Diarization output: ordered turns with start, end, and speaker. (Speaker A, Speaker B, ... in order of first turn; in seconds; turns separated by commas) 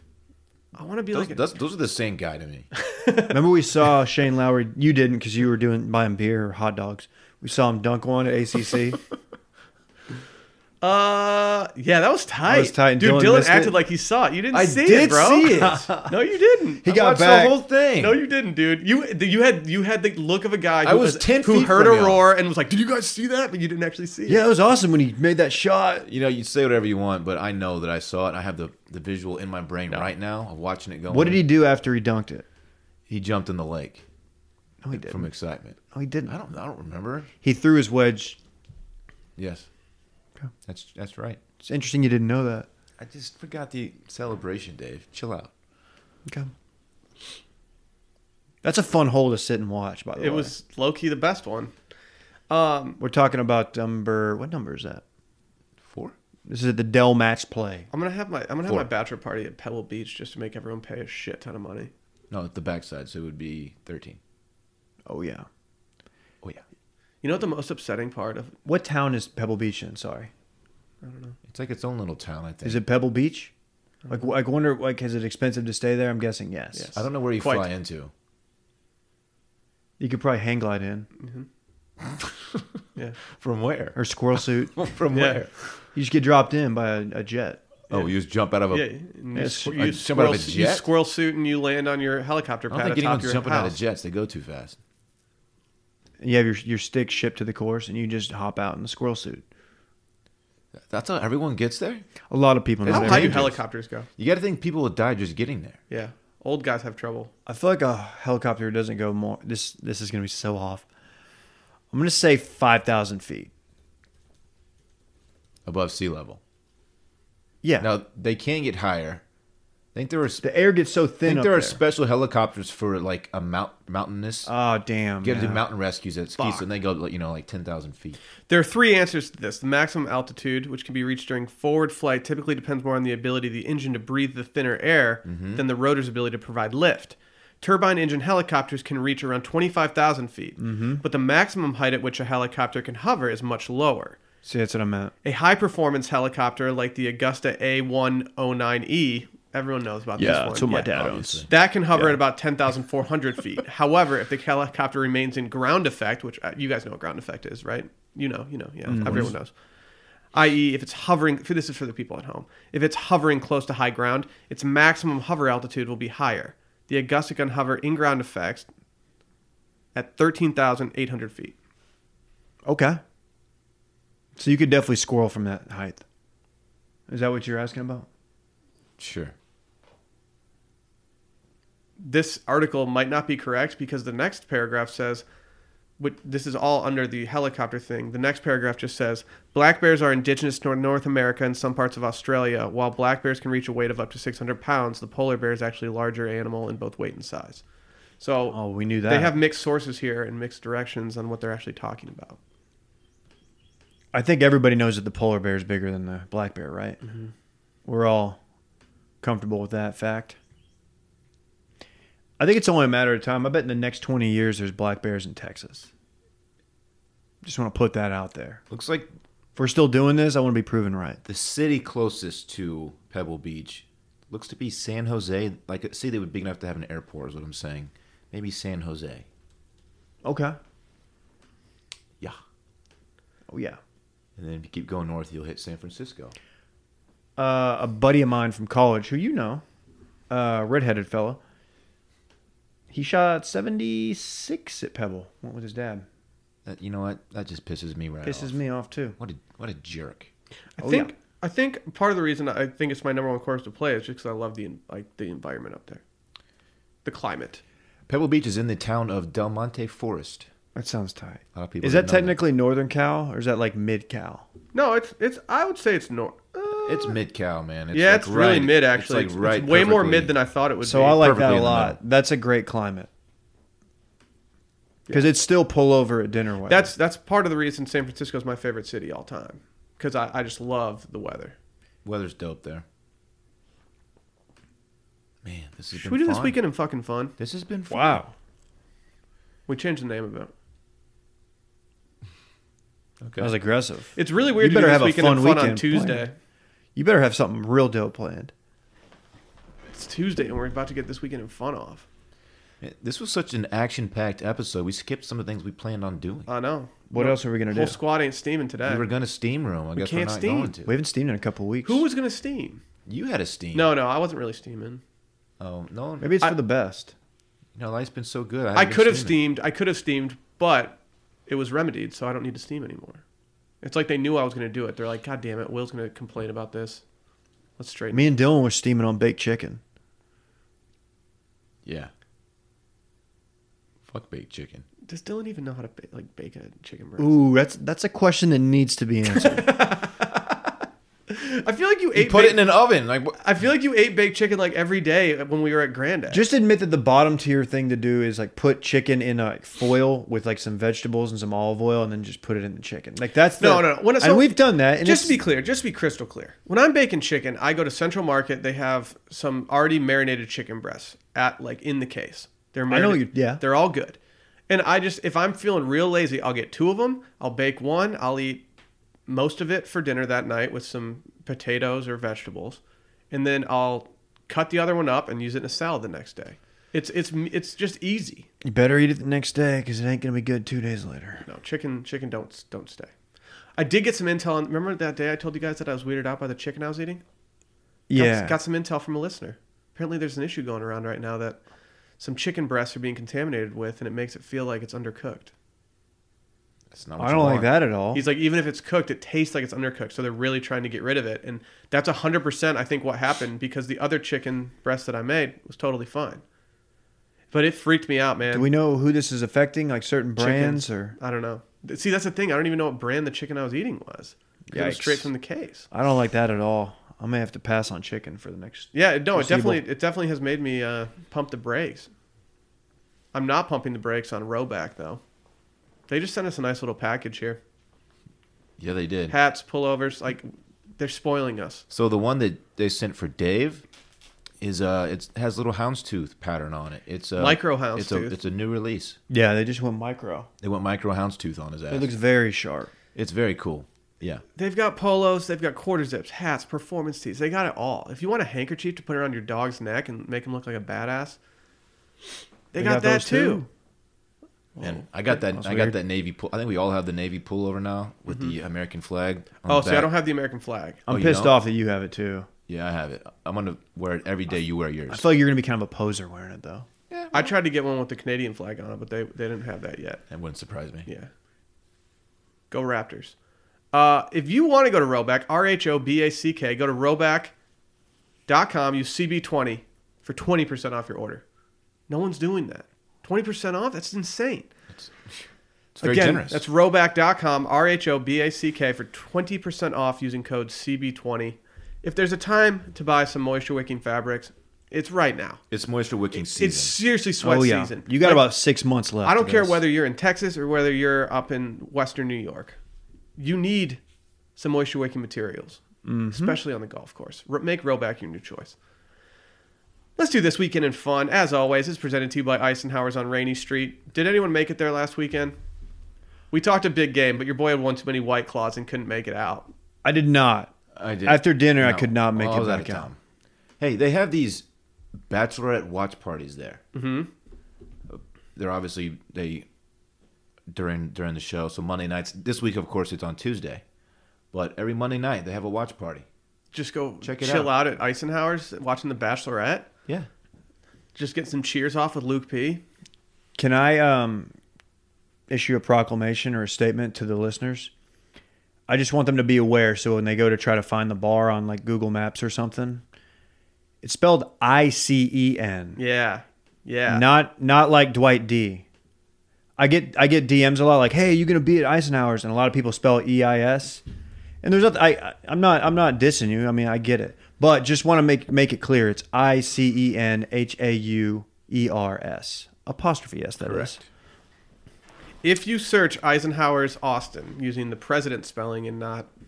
Speaker A: 0.8-1.4, Speaker B: 1.1-2.7, Speaker A: 2.8-3.4, Speaker C: 3.3-9.0, Speaker A: 10.8-16.9, Speaker C: 12.5-13.8, Speaker B: 14.5-15.9, Speaker C: 15.5-16.2, Speaker C: 16.8-17.6, Speaker B: 16.9-18.2, Speaker A: 18.0-24.4, Speaker B: 20.8-22.3, Speaker C: 24.3-26.1, Speaker B: 26.1-31.4, Speaker C: 31.1-32.5, Speaker B: 33.1-34.0, Speaker C: 34.8-35.3, Speaker B: 34.9-37.3, Speaker C: 35.9-36.3, Speaker C: 37.4-38.4, Speaker B: 39.4-39.7, Speaker B: 40.7-41.4, Speaker C: 41.6-42.7, Speaker B: 43.0-45.5, Speaker C: 46.3-46.5, Speaker C: 48.6-50.5, Speaker A: 50.2-51.7, Speaker A: 52.5-53.0, Speaker C: 53.0-55.0, Speaker B: 55.8-56.1, Speaker C: 56.5-57.9, Speaker A: 57.9-61.9, Speaker B: 62.3-64.2, Speaker C: 65.1-65.5, Speaker A: 67.2-68.5, Speaker C: 68.7-70.3, Speaker A: 71.0-71.4, Speaker B: 71.5-72.8, Speaker C: 72.6-73.5, Speaker C: 74.1-76.9, Speaker A: 76.7-77.7, Speaker B: 77.0-78.1, Speaker C: 80.0-81.1, Speaker A: 81.2-81.5, Speaker B: 82.1-82.6, Speaker B: 83.3-84.0, Speaker C: 84.0-84.7, Speaker B: 84.7-85.6, Speaker A: 85.1-85.4, Speaker C: 86.0-87.6, Speaker B: 87.9-88.9, Speaker A: 88.7-93.8, Speaker C: 89.4-89.9, Speaker B: 89.6-90.9, Speaker B: 92.7-94.8, Speaker C: 96.2-99.5, Speaker B: 100.9-102.0, Speaker C: 102.3-103.5, Speaker B: 102.8-103.6, Speaker A: 102.9-104.1, Speaker B: 104.2-105.8, Speaker A: 105.9-107.3, Speaker C: 107.5-110.9, Speaker C: 111.9-113.5, Speaker B: 115.7-116.4, Speaker C: 117.6-117.9, Speaker B: 117.8-119.2, Speaker B: 120.0-120.4, Speaker C: 120.4-121.8, Speaker B: 121.2-124.5, Speaker C: 124.5-125.6, Speaker B: 125.2-128.2, Speaker A: 128.5-144.2, Speaker B: 135.2-135.6, Speaker C: 140.6-141.0, Speaker C: 144.4-145.1, Speaker A: 145.2-159.5, Speaker C: 150.2-151.5, Speaker B: 150.2-152.1, Speaker C: 158.9-159.3, Speaker B: 159.0-159.3, Speaker A: 160.3-168.7, Speaker A: 169.9-171.6, Speaker C: 172.7-173.0, Speaker C: 174.4-176.0, Speaker C: 177.1-178.1, Speaker B: 179.0-179.3, Speaker A: 182.0-185.2, Speaker A: 186.0-197.6, Speaker A: 198.2-202.4, Speaker C: 198.5-199.3, Speaker C: 204.1-207.0, Speaker A: 207.1-207.3, Speaker C: 207.8-208.4, Speaker C: 209.2-210.4, Speaker C: 212.4-215.9, Speaker C: 217.4-218.6, Speaker B: 218.7-219.1, Speaker C: 219.6-221.2, Speaker B: 221.3-229.3, Speaker C: 230.2-230.6, Speaker C: 233.5-233.8, Speaker B: 234.4-236.3, Speaker C: 237.4-239.6, Speaker C: 240.3-241.4, Speaker C: 242.9-246.1, Speaker B: 246.7-248.5, Speaker C: 248.2-249.2, Speaker B: 249.2-250.3, Speaker A: 250.8-256.0, Speaker C: 250.8-251.1, Speaker A: 257.1-257.6, Speaker B: 258.1-260.5, Speaker C: 260.8-264.5, Speaker B: 261.6-262.4, Speaker A: 264.7-267.2, Speaker B: 266.9-270.4, Speaker A: 267.9-271.4, Speaker C: 270.8-273.1, Speaker B: 271.1-272.0, Speaker A: 275.1-275.3, Speaker C: 275.1-276.9, Speaker A: 276.7-281.6, Speaker B: 282.1-282.9, Speaker B: 285.4-286.6, Speaker A: 285.9-287.3, Speaker B: 287.4-288.2, Speaker C: 287.9-288.3, Speaker A: 289.7-290.5, Speaker B: 293.2-293.6, Speaker C: 293.4-296.3, Speaker A: 294.1-296.3, Speaker C: 296.9-298.5, Speaker A: 299.9-302.1, Speaker B: 302.8-306.5, Speaker A: 306.5-309.1, Speaker C: 307.1-308.0, Speaker B: 308.8-310.9, Speaker A: 310.0-310.7, Speaker C: 310.9-312.1, Speaker A: 311.9-312.8, Speaker B: 313.1-313.9, Speaker A: 313.7-315.0, Speaker B: 315.6-316.4, Speaker C: 316.2-317.1, Speaker B: 317.8-319.4, Speaker A: 318.8-323.2, Speaker A: 323.8-327.0, Speaker A: 327.8-328.3, Speaker C: 328.1-329.8, Speaker B: 331.9-332.1, Speaker B: 334.1-334.9, Speaker A: 335.1-337.4, Speaker C: 337.2-339.8, Speaker A: 339.3-340.7, Speaker A: 341.3-342.7, Speaker B: 342.2-343.4, Speaker A: 343.4-346.4, Speaker C: 346.3-355.4, Speaker A: 353.6-364.2, Speaker C: 362.9-363.6, Speaker A: 364.7-368.6, Speaker A: 369.3-372.8, Speaker A: 373.3-378.5, Speaker C: 378.6-381.4, Speaker A: 381.4-383.1, Speaker A: 383.8-387.2, Speaker C: 388.1-388.6, Speaker A: 388.1-391.6, Speaker A: 392.2-395.5, Speaker B: 396.9-397.7, Speaker C: 397.2-398.3, Speaker A: 398.1-406.4, Speaker A: 407.5-408.7, Speaker C: 408.5-411.2, Speaker A: 410.4-415.9, Speaker C: 414.7-415.3, Speaker C: 415.9-419.8, Speaker A: 418.9-422.1, Speaker A: 423.3-425.2, Speaker A: 426.1-427.6, Speaker B: 428.8-429.4, Speaker A: 429.3-431.9, Speaker B: 431.9-433.8, Speaker B: 434.6-439.2, Speaker A: 437.4-438.4, Speaker C: 439.3-440.5, Speaker B: 440.6-442.1, Speaker C: 441.9-442.9, Speaker B: 443.1-444.4, Speaker A: 444.6-451.4, Speaker A: 452.7-453.6, Speaker C: 452.7-453.7, Speaker A: 454.8-455.1, Speaker B: 454.8-460.1, Speaker C: 455.3-456.0, Speaker A: 458.3-458.5, Speaker A: 459.6-461.1, Speaker C: 461.1-462.5, Speaker B: 461.1-461.6, Speaker B: 462.7-465.2, Speaker C: 465.1-466.9, Speaker B: 467.1-467.5, Speaker A: 467.3-470.2, Speaker B: 470.3-471.1, Speaker A: 472.7-473.4, Speaker A: 473.9-477.5, Speaker A: 478.5-481.4, Speaker A: 482.1-484.7, Speaker B: 485.9-486.6, Speaker A: 486.0-495.6, Speaker B: 495.7-497.0, Speaker A: 496.4-498.5, Speaker C: 497.4-499.8, Speaker A: 499.2-502.8, Speaker A: 503.4-504.0, Speaker A: 504.6-508.8, Speaker C: 506.0-506.6, Speaker A: 510.2-515.6, Speaker A: 516.5-519.7, Speaker C: 520.0-520.7, Speaker B: 521.0-523.2, Speaker C: 521.2-523.1, Speaker B: 523.8-524.6, Speaker B: 525.3-526.8, Speaker A: 526.9-527.3, Speaker B: 528.1-529.7, Speaker B: 530.7-533.8, Speaker B: 534.5-536.3, Speaker A: 536.7-539.9, Speaker B: 537.2-537.8, Speaker A: 541.1-542.8, Speaker C: 543.6-544.5, Speaker C: 545.5-547.9, Speaker C: 548.9-553.0, Speaker C: 554.0-556.0, Speaker A: 556.0-557.3, Speaker C: 557.1-558.9, Speaker C: 559.8-564.0, Speaker C: 564.6-574.0, Speaker B: 573.6-574.0, Speaker A: 575.4-579.3